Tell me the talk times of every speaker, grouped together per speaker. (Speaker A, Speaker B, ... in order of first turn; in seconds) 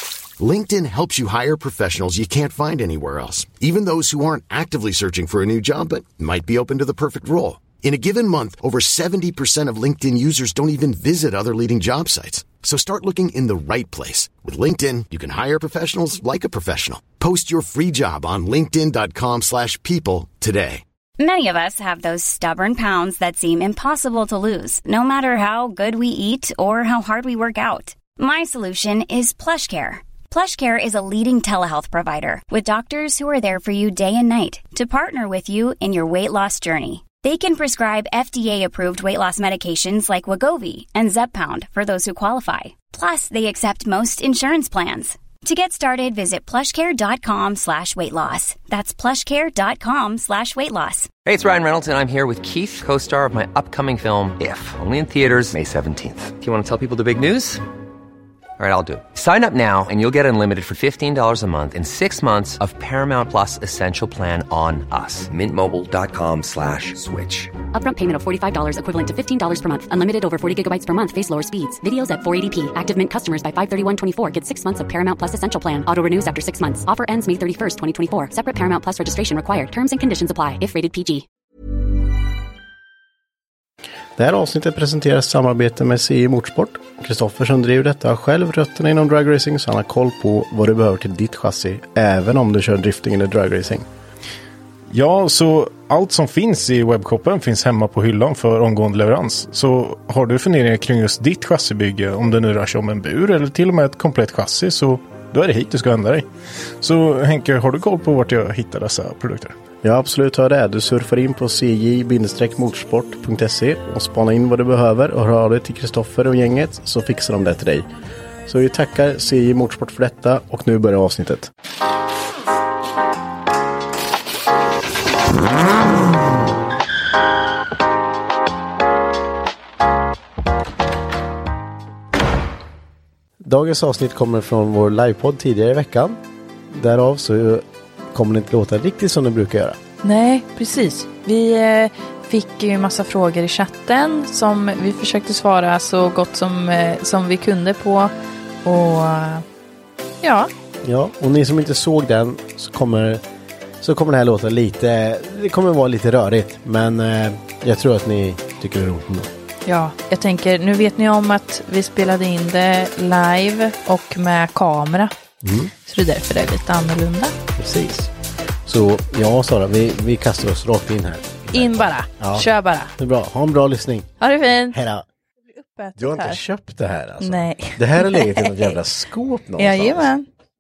Speaker A: 0.4-20.8
Speaker B: 21.2-51.1
Speaker C: 51.2-57.6, 58.6-67.5
Speaker D: 67.7-81.2
Speaker E: 84.2-93.9, 109.8-117.9, 118.5-121.5, 133.4-136.2, 136.7-139.8, 150.8-153.2, 153.8-159.3, 165.4-165.7, 167.6-168.1, 168.7-174.1, 174.7-175.1, 176.0-180.1
Speaker F: 94.9-106.3, 106.8-109.5
Speaker G: 140.0-148.1, 148.6-149.4, 150.2-150.5, 159.7-165.1, 165.8-167.3, 171.5-172.9, 174.2-174.8, 175.5-176.4, 177.2-178.7, 179.6-180.3